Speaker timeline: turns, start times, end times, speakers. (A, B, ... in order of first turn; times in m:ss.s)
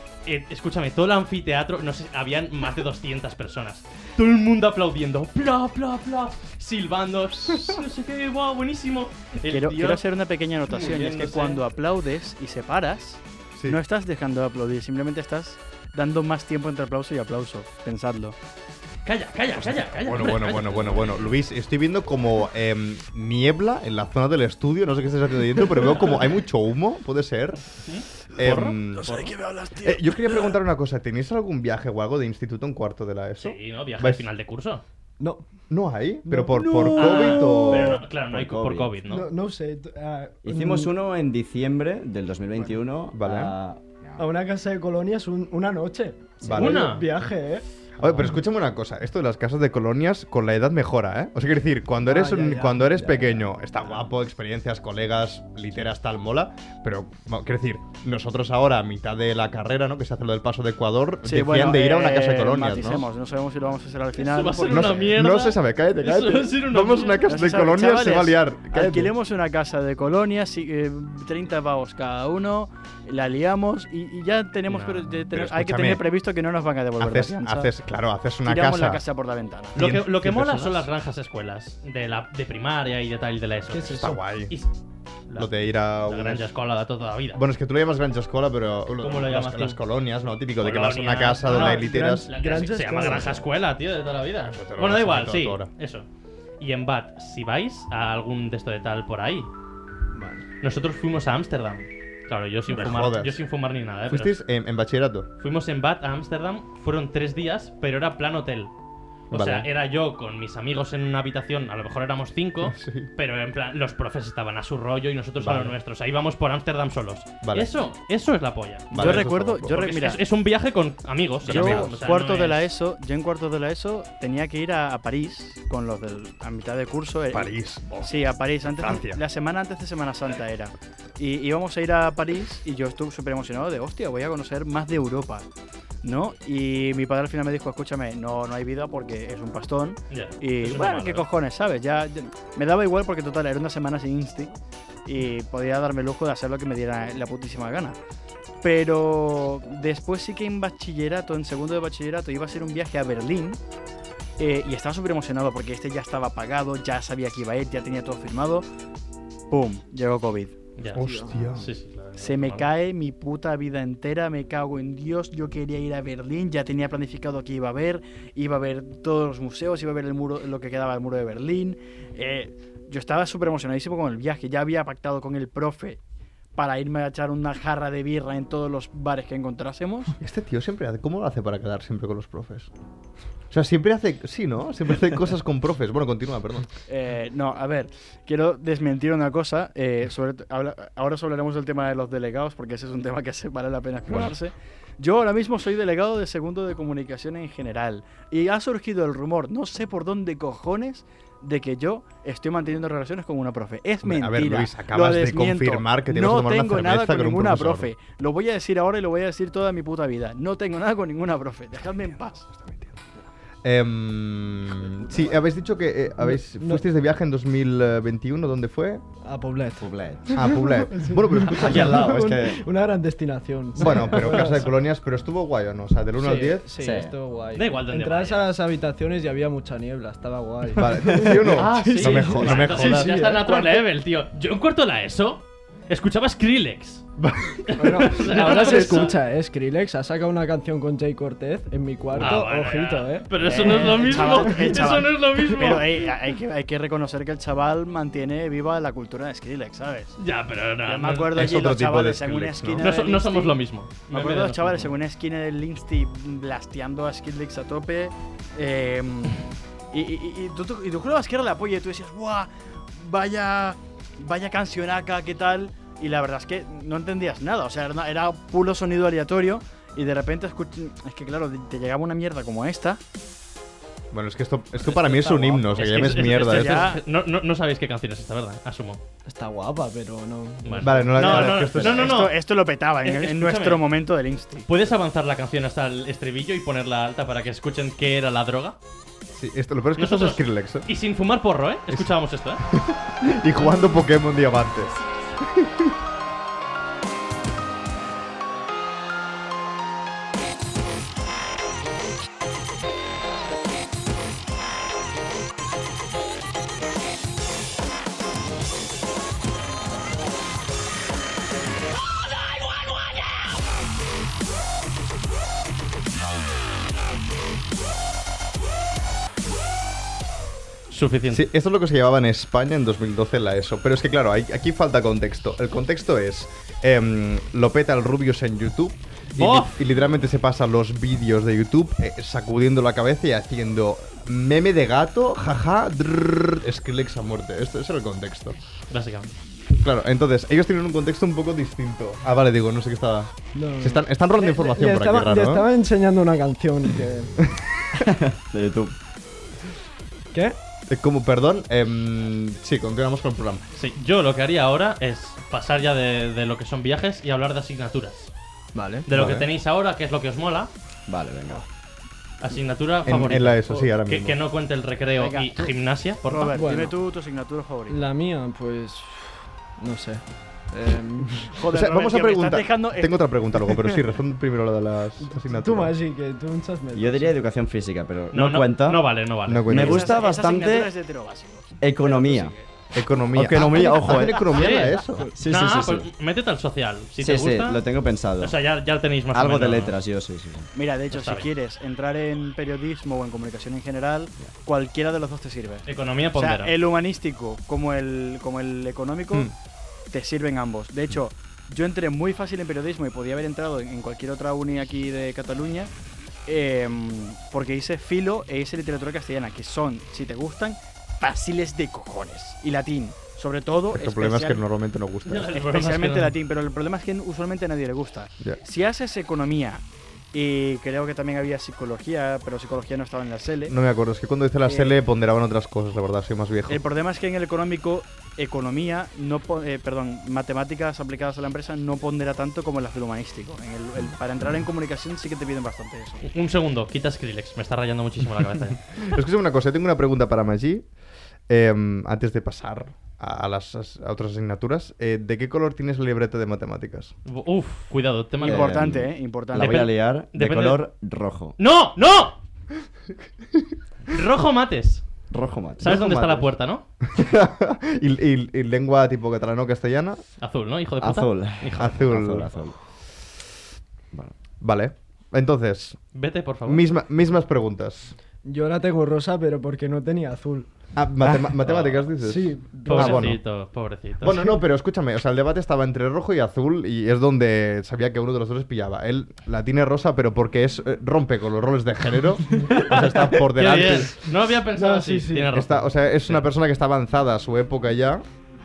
0:00.3-0:10.0 A
0:09.5-0:18.4 B
0:10.7-0:11.6 A
0:19.0-0:21.2 A
0:19.9-0:27.6 C
0:27.9-0:29.3 A
0:28.4-0:29.2 C
0:28.6-0:30.5 B
0:29.8-0:34.3 C
0:33.4-0:34.8 A
0:35.7-0:38.0 C
0:36.2-0:37.1 D
0:36.9-0:39.3 A
0:38.3-0:39.0 E
0:39.1-0:40.9 D
0:40.4-0:44.2 E
0:43.1-0:43.5 C
0:44.2-0:47.6 D
0:46.4-0:46.9 C
0:46.6-0:47.0 A
0:48.0-1:03.1 C
0:52.0-0:53.3 D
1:01.2-1:05.1 B
1:04.2-1:07.3 A
1:04.7-1:09.1 C
1:07.3-1:17.7 B
1:14.7-1:15.2 A
1:15.3-1:16.1 C
1:17.0-1:19.0 C
1:18.5-1:19.9 B
1:19.8-1:20.9 C
1:19.8-1:24.7 A
1:23.7-1:24.2 D
1:24.0-1:24.6 C
1:25.3-1:27.4 A
1:25.4-1:26.4 C
1:27.4-1:32.3 C
1:29.0-1:29.8 A
1:30.6-1:36.1 A
1:31.4-1:33.4 D
1:33.0-1:33.3 C
1:34.5-1:35.7 C
1:36.6-1:39.5 A
1:40.1-1:40.5 D
1:40.6-1:44.4 A
1:42.7-1:43.4 C
1:44.1-1:45.3 C
1:45.4-1:48.7 A
1:49.3-2:02.7 A
1:49.3-1:49.7 C
1:52.6-1:53.1 C
1:55.4-1:55.8 C
1:57.4-1:57.7 C
1:58.9-1:59.8 C
1:58.9-2:00.2 B
2:01.4-2:02.0 C
2:01.4-2:07.5 B
2:07.3-2:09.2 C
2:08.0-2:15.5 B
2:16.0-2:24.5 B
2:20.1-2:21.3 A
2:25.1-2:28.0 B
2:28.6-2:33.6 B
2:34.4-2:38.7 B
2:39.5-2:40.6 B
2:40.8-2:42.7 A
2:40.9-2:41.7 C
2:41.0-2:41.4 D
2:42.2-2:56.0 B
2:56.6-3:00.2 B
3:00.2-3:02.7 C
3:03.5-3:06.7 C
3:06.9-3:32.5 B
3:14.1-3:14.3 C
3:24.0-3:27.9 C
3:32.5-3:33.0 C
3:33.6-3:39.0 C
3:35.0-3:35.4 B
3:36.2-3:36.8 D
3:39.2-3:44.7 D
3:39.8-3:40.4 E
3:40.4-3:42.3 C
3:41.5-3:42.6 E
3:43.8-3:46.7 C
3:43.8-3:44.4 E
3:46.2-3:53.7 D
3:46.8-3:47.2 E
3:47.6-3:48.5 A
3:50.8-3:53.7 C
3:51.5-3:57.0 A
3:57.2-3:59.2 C
3:57.7-3:59.2 A
3:57.8-4:04.9 D
4:02.2-4:06.1 A
4:03.4-4:10.2 B
4:05.4-4:05.8 D
4:10.2-4:11.4 A
4:10.8-4:13.6 B
4:11.3-4:12.9 C
4:12.8-4:14.9 A
4:14.1-4:33.0 B
4:34.1-4:36.9 C
4:34.9-4:37.0 B
4:35.8-4:39.0 A
4:39.3-4:41.6 D
4:40.6-4:42.4 A
4:40.8-4:42.3 C
4:41.6-4:44.7 B
4:43.0-4:43.8 A
4:44.7-4:48.8 A
4:49.3-4:50.9 C
4:50.0-4:52.6 A
4:51.9-4:55.9 C
5:20.9-5:21.5 A
5:21.3-5:38.6 C
5:29.4-5:29.8 A
5:38.9-5:39.3 A
5:39.7-5:45.7 C
5:43.6-5:47.3 D
5:48.0-5:49.0 E
5:50.9-5:53.7 C
5:53.8-5:58.3 A
5:58.8-5:59.1 D
5:59.1-6:00.7 A
5:59.1-5:59.5 C
6:01.1-6:01.6 E
6:02.4-6:06.6 A
6:03.0-6:04.4 C
6:05.2-6:08.0 B
6:06.6-6:06.9 D
6:07.9-6:11.5 D
6:11.6-6:14.0 B
6:11.7-6:16.0 C
6:15.2-6:17.3 D
6:17.0-6:19.1 E
6:18.3-6:20.0 A
6:19.5-6:20.2 C
6:19.6-6:20.9 E
6:19.7-6:22.7 B
6:21.8-6:22.5 E
6:22.9-6:25.3 C
6:23.3-6:26.1 E
6:24.5-6:27.8 A
6:25.2-6:25.4 D
6:27.2-6:28.6 E
6:28.4-6:29.9 A
6:29.3-6:30.7 E
6:30.7-6:39.5 B
6:31.1-6:31.5 A
6:35.9-6:36.7 A
6:40.1-6:45.9 B
6:46.5-6:54.6 B
6:53.9-6:55.6 C
6:55.3-6:56.4 A
6:55.5-7:03.8 B
7:03.7-7:06.8 C
7:04.7-7:05.0 B
7:06.7-7:16.2 B
7:16.2-7:18.8 A
7:19.0-7:20.9 C
7:21.5-7:27.1 C
7:27.3-7:28.8 A
7:28.4-7:29.9 B
7:28.4-7:31.6 E
7:29.6-7:30.8 A
7:31.6-7:32.4 A
7:34.1-7:35.0 A
7:35.3-7:36.5 E
7:35.8-7:36.8 A
7:37.1-7:40.2 C
7:40.4-7:42.1 A
7:41.0-7:42.8 E
7:41.8-7:42.8 C
7:44.6-7:46.0 C
7:46.2-7:46.8 A
7:46.6-7:48.2 C
7:48.4-7:50.7 D
7:51.0-7:53.4 C
7:51.6-7:52.0 A
7:52.2-7:53.4 D
7:52.9-7:54.5 A
7:54.2-8:04.2 C
8:02.6-8:06.4 A
8:04.7-8:05.5 D
8:05.5-8:08.2 C